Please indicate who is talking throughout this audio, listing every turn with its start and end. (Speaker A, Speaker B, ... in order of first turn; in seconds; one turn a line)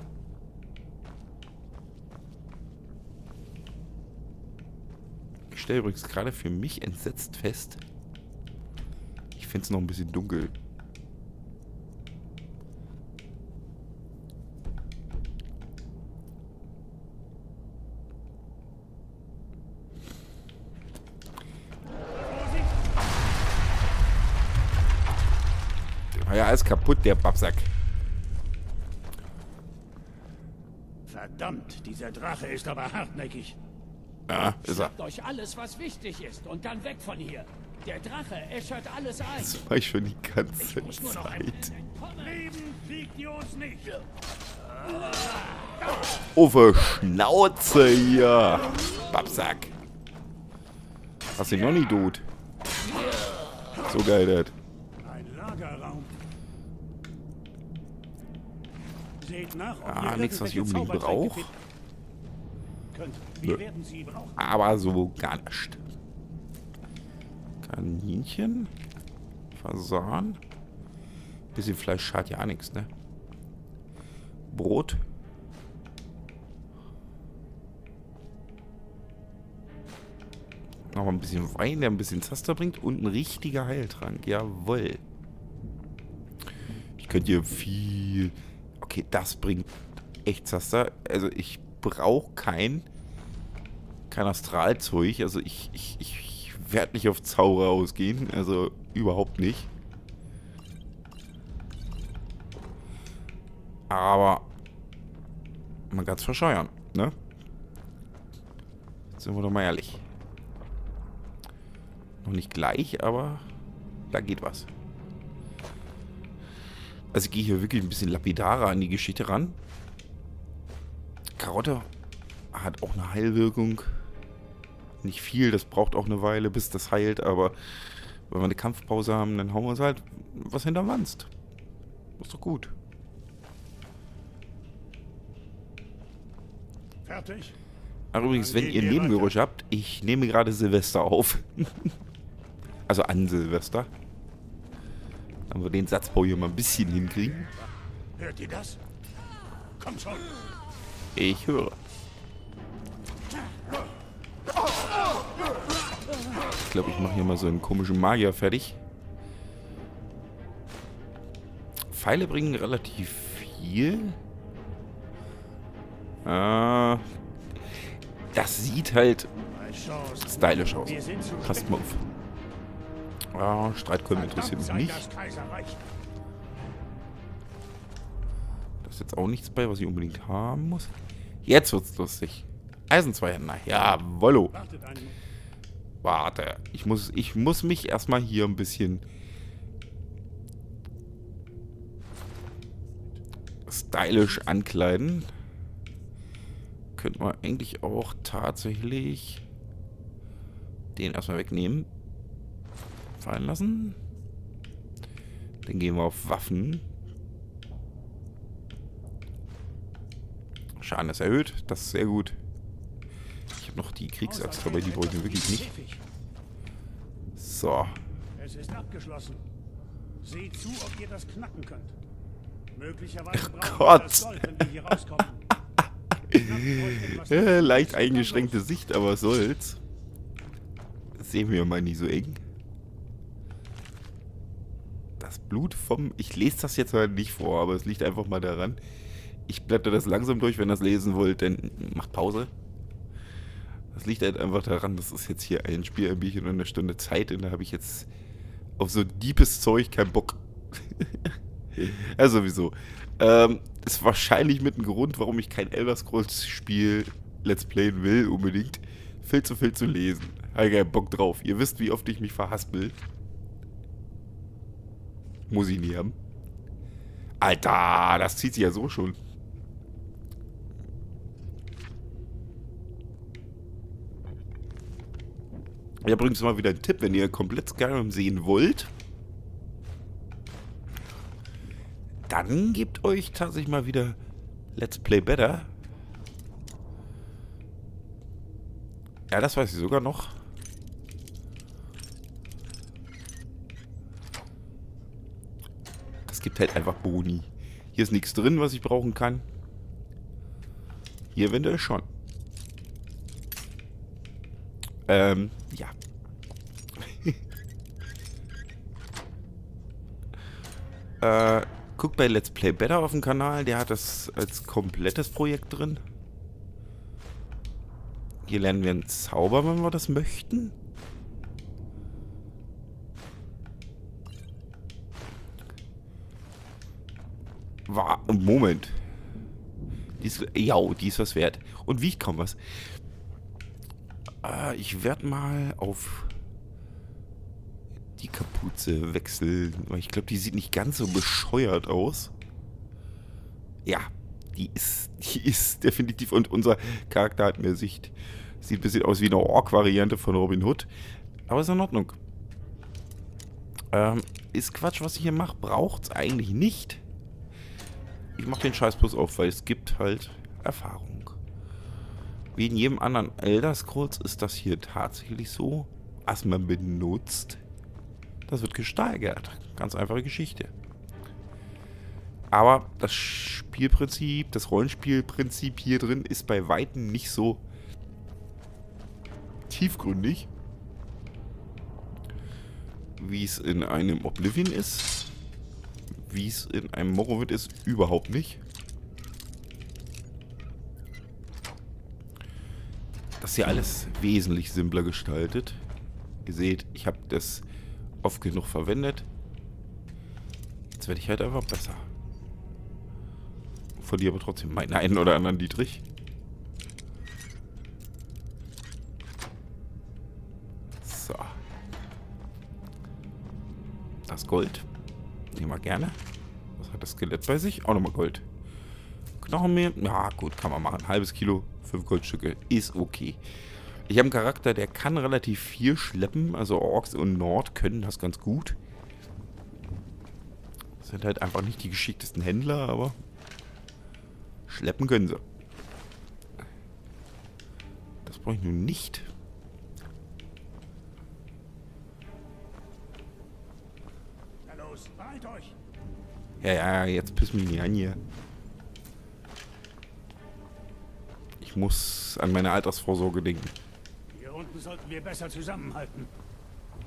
Speaker A: 5.5-7.8
Speaker A: 9.3-10.6
Speaker A: 26.1-27.7
Speaker B: 31.1-33.6
Speaker A: 34.3-34.9
Speaker C: 34.6-39.5
Speaker A: 39.3-41.7
Speaker C: 40.6-42.4
Speaker B: 42.2-44.0
Speaker B: 44.9-45.2
Speaker A: 46.3-49.7
Speaker A: 51.3-52.2
Speaker A: 53.8-54.5
Speaker B: 55.0-56.1
Speaker B: 59.2-61.5
Speaker A: 59.8-61.5
Speaker B: 62.9-64.4
Speaker A: 64.4-65.8
Speaker A: 67.6-68.7
Speaker A: 69.5-70.4
Speaker A: 71.5-72.9
Speaker A: 74.5-75.0
Speaker A: 80.9-85.0
Speaker A: 87.0-92.8
Speaker A: 94.1-99.7
Speaker A: 103.9-104.5
Speaker A: 105.9-107.2
Speaker A: 109.1-110.0
Speaker A: 112.2-113.5
Speaker A: 114.1-114.7
Speaker A: 117.1-119.6
Speaker A: 121.4-121.9
Speaker A: 122.5-124.0
Speaker A: 125.0-131.3
Speaker A: 132.2-132.7
Speaker B: 137.0-137.6
Speaker A: 138.1-141.9
Speaker B: 138.2-139.3
Speaker A: 142.9-143.9
Speaker A: 145.5-147.5
Speaker B: 148.2-148.8
Speaker B: 149.8-150.3
Speaker A: 151.1-151.8
Speaker A: 156.6-158.8
Speaker A: 161.9-164.2
Speaker A: 166.2-167.0
Speaker A: 168.3-169.3
Speaker B: 169.5-172.1
Speaker A: 170.2-172.0
Speaker A: 173.3-175.1
Speaker B: 174.1-175.8
Speaker A: 178.8-180.9
Speaker A: 181.4-184.5
Speaker B: 184.5-185.2
Speaker A: 186.0-189.0
Speaker A: 193.7-195.3
Speaker A: 196.9-199.4
Speaker A: 200.9-201.9
Speaker A: 203.2-204.0
Speaker A: 205.6-206.8
Speaker A: 210.8-212.4
Speaker A: 213.5-215.7
Speaker B: 214.2-216.0
Speaker A: 217.3-218.0
Speaker B: 218.4-219.4
Speaker B: 220.2-221.9
Speaker B: 222.7-225.5
Speaker A: 223.3-224.9
Speaker A: 225.5-229.8
Speaker B: 226.3-228.7
Speaker A: 231.2-232.4
Speaker A: 235.2-238.8
Speaker A: 239.5-242.5
Speaker A: 243.9-248.1
Speaker A: 248.8-263.0
Speaker A: 265.5-266.1
Speaker A: 267.4-269.2
Speaker A: 276.0-278.9
Speaker A: 282.3-284.2
Speaker A: 284.7-285.7
Speaker A: 289.3-290.4
Speaker A: 296.2-299.4
Speaker A: 301.3-302.1
Speaker A: 305.1-305.9
Speaker A: 306.9-307.4
Speaker A: 311.2-316.0
Speaker A: 318.4-320.7
Speaker A: 327.9-329.0
Speaker A: 330.2-332.9
Speaker A: 334.4-336.3
Speaker A: 338.2-342.3
Speaker A: 343.8-350.9
Speaker A: 351.5-352.2
Speaker A: 353.9-357.0
Speaker A: 358.4-361.4
Speaker A: 362.5-367.6
Speaker A: 368.5-370.7
Speaker A: 372.5-377.6
Speaker A: 379.7-380.5
Speaker A: 383.2-385.3
Speaker A: 386.2-388.6
Speaker A: 393.4-395.8
Speaker A: 396.4-397.6
Speaker A: 398.2-399.3
Speaker A: 400.9-402.1
Speaker A: 404.0-406.0
Speaker A: 411.0-411.6
Speaker A: 414.3-414.9
Speaker A: 415.5-416.2
Speaker A: 416.8-418.4
Speaker A: 419.4-423.4
Speaker A: 424.1-428.8
Speaker A: 431.0-433.2
Speaker A: 434.7-435.4
Speaker A: 438.2-439.3
Speaker B: 444.6-445.8
Speaker A: 446.6-448.2
Speaker A: 451.6-453.8
Speaker B: 454.3-456.3